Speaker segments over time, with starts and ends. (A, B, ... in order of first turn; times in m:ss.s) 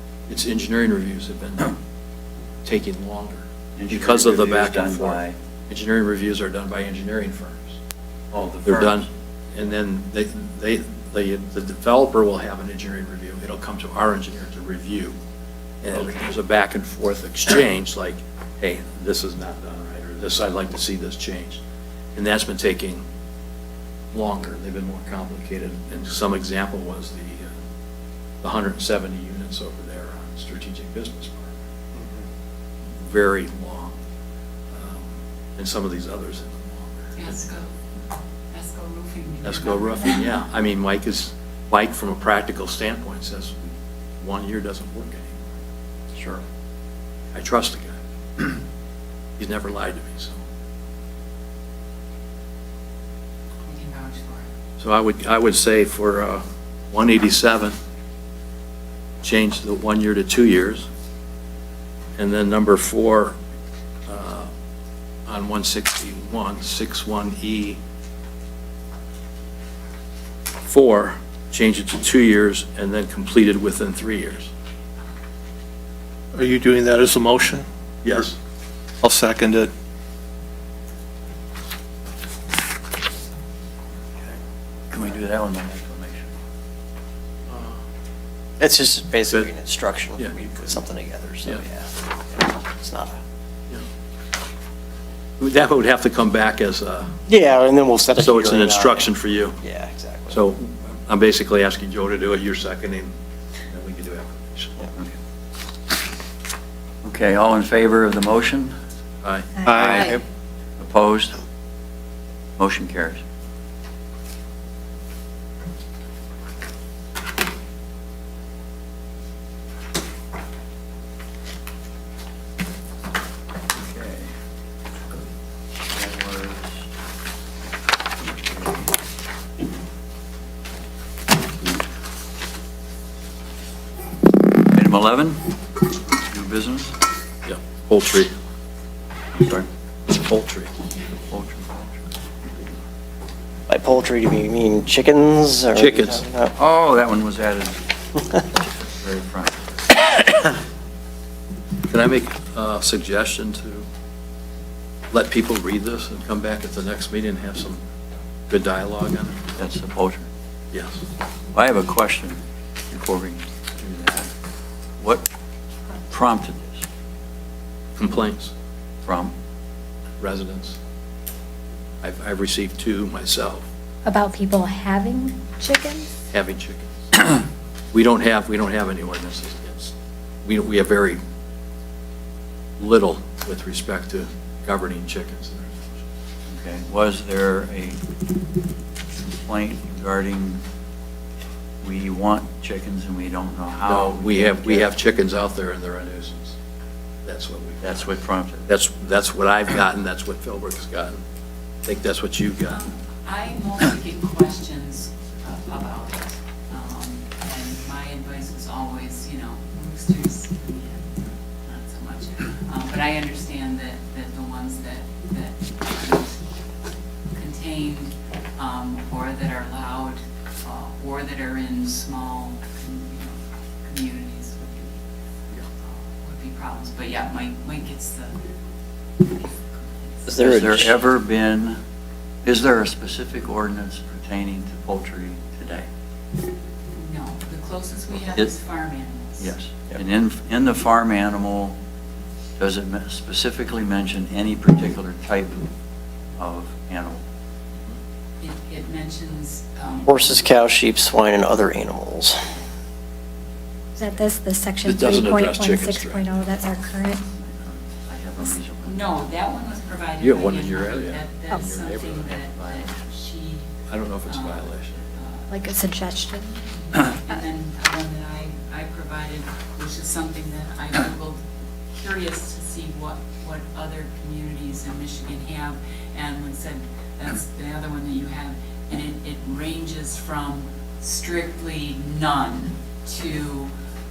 0:00.3-0:01.8 A
0:02.6-0:07.8 A
0:03.8-0:05.4 B
0:08.3-0:09.1 B
0:08.6-0:15.2 A
0:15.8-0:21.6 A
0:22.2-0:23.0 A
0:24.1-0:27.5 A
0:28.4-0:31.6 A
0:33.0-0:34.0 A
0:34.7-0:37.1 A
0:37.2-0:37.7 C
0:38.5-0:40.4 C
0:39.4-0:45.5 A
0:46.2-0:46.4 D
0:47.3-0:48.6 A
0:49.4-0:50.4 A
0:53.7-0:54.5 C
0:54.8-0:57.8 A
0:59.2-1:00.9 A
1:02.2-1:03.4 A
1:04.1-1:04.5 A
1:05.3-1:07.8 A
1:10.7-1:14.5 A
1:16.3-1:17.7 E
1:18.0-1:18.4 A
1:19.0-1:19.7 E
1:24.9-1:26.3 B
1:27.5-1:27.8 A
1:28.6-1:33.2 D
1:35.4-1:37.1 A
1:37.3-1:40.4 D
1:38.2-1:39.6 A
1:40.3-1:43.1 A
1:43.7-1:44.9 A
1:47.0-1:48.8 B
1:49.2-1:49.6 A
1:49.6-1:50.1 E
1:49.7-1:50.1 F
1:49.7-1:50.2 B
1:50.8-1:51.4 B
1:52.6-1:53.2 B
2:03.7-2:04.3 B
2:05.9-2:06.9 B
2:08.2-2:08.9 B
2:14.7-2:15.4 B
2:16.2-2:16.9 B
2:17.5-2:18.3 A
2:19.4-2:19.7 B
2:20.1-2:20.7 A
2:21.3-2:22.0 B
2:23.7-2:26.5 D
2:25.8-2:26.2 A
2:26.6-2:27.8 B
2:28.3-2:29.6 B
2:31.9-2:33.9 A
2:35.1-2:37.8 A
2:38.5-2:39.5 A
2:39.6-2:40.3 B
2:40.7-2:41.0 A
2:41.5-2:44.3 B
2:45.0-2:45.2 B
2:46.1-2:46.8 B
2:48.0-2:48.5 A
2:49.0-2:49.3 B
2:50.2-2:50.8 A
2:52.0-2:53.7 A
2:54.0-2:56.2 F
2:56.3-2:57.0 A
2:57.9-2:59.9 A
3:00.4-3:01.2 A
3:02.8-3:06.0 A
3:06.5-3:08.0 B
3:09.4-3:10.6 B
3:11.8-3:15.0 B
3:13.8-3:16.6 A
3:17.2-3:18.1 A
3:17.8-3:18.7 B
3:18.7-3:21.2 A
3:21.8-3:22.8 A
3:22.7-3:36.4 C
3:37.3-3:45.0 C
3:45.9-3:48.4 C
3:49.8-3:50.4 C
3:50.3-3:51.0 D
3:50.3-3:51.8 B
3:52.4-3:55.9 B
3:56.9-3:59.5 C
3:59.4-4:01.8 B
4:02.6-4:05.7 B
4:06.4-4:07.2 B
4:08.4-4:10.4 C
4:10.1-4:12.5 D
4:14.0-4:17.2 F
4:14.8-4:16.4 A
4:17.3-4:19.2 B
4:18.4-4:23.7 C
4:20.2-4:22.4 A
4:22.5-4:23.0 B
4:23.9-4:25.0 A
4:24.2-4:25.6 C
4:25.5-4:26.6 F
4:26.7-4:43.7 C